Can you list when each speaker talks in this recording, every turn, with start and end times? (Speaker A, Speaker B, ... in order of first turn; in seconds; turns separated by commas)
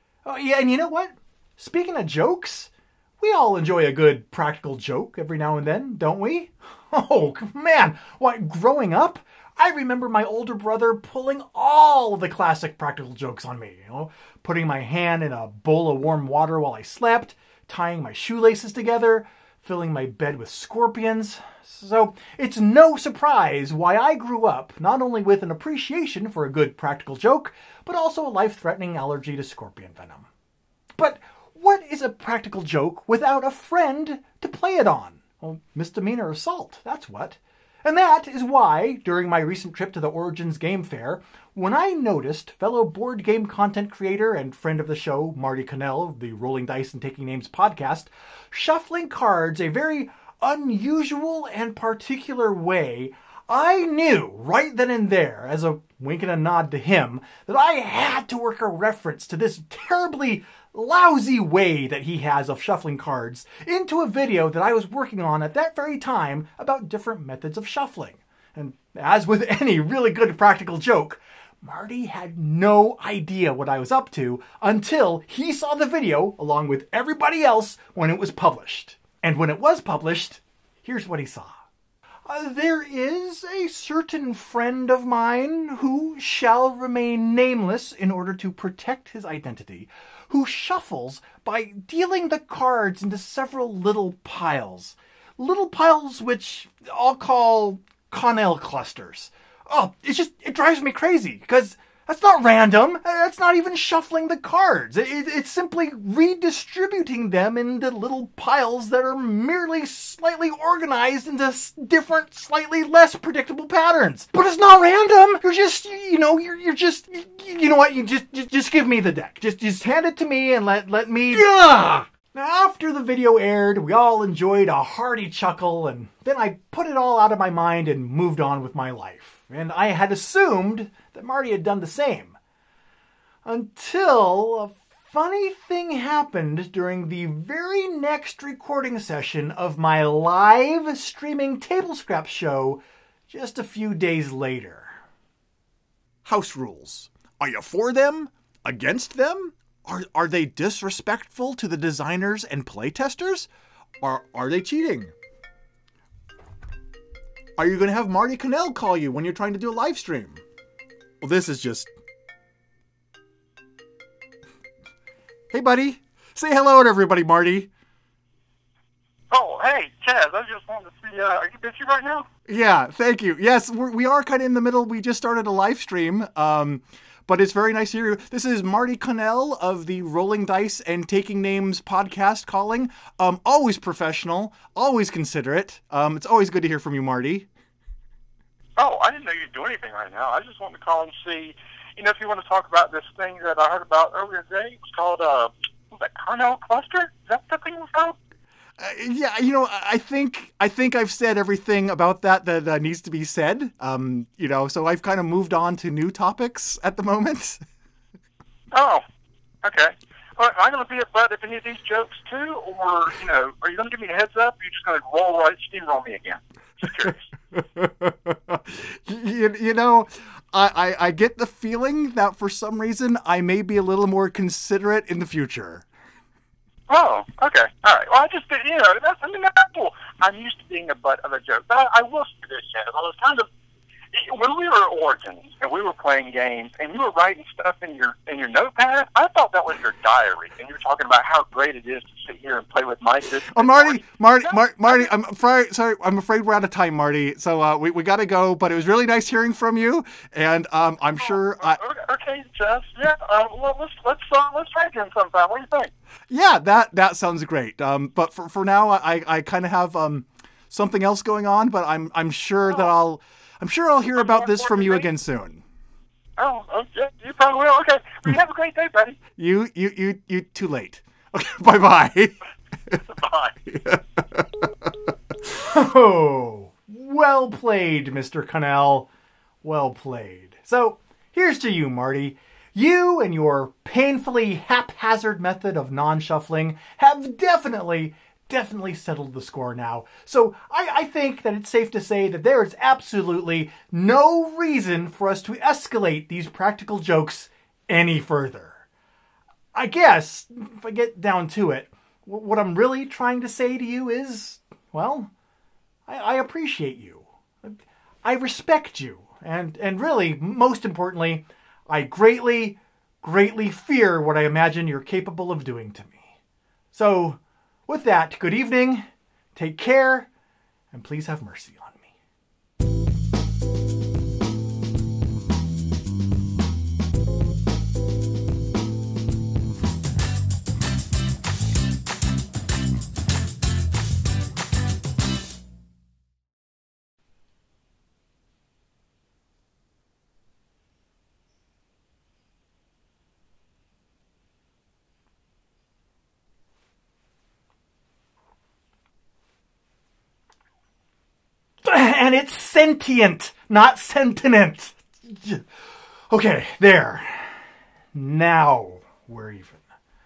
Speaker A: 0.2-30.3, Speaker A: 31.0-81.6, Speaker A: 82.3-132.4, Speaker A: 133.4-145.0, Speaker A: 146.2-153.5, Speaker A: 154.0-155.1, Speaker A: 157.6-160.4, Speaker A: 161.2-161.9, Speaker A: 165.5-167.7, Speaker B: 169.3-172.3, Speaker A: 172.5-187.5, Speaker B: 188.8-198.2, Speaker A: 198.8-207.6, Speaker B: 208.7-209.0, Speaker B: 209.6-217.3, Speaker A: 217.6-225.9, Speaker B: 226.9-233.5, Speaker B: 234.1-245.1, Speaker A: 243.5-251.8, Speaker B: 251.2-255.9, Speaker A: 256.3-265.6, Speaker B: 264.2-265.1, Speaker B: 266.4-269.2, Speaker A: 269.4-272.4, Speaker B: 273.1-273.6, Speaker A: 273.7-274.4, Speaker A: 275.4-279.1, Speaker A: 279.6-298.9, Speaker A: 299.7-305.3, Speaker A: 306.1-316.3, Speaker A: 316.9-320.3, Speaker A: 320.9-322.1, Speaker A: 351.8-355.7, Speaker A: 356.3-359.9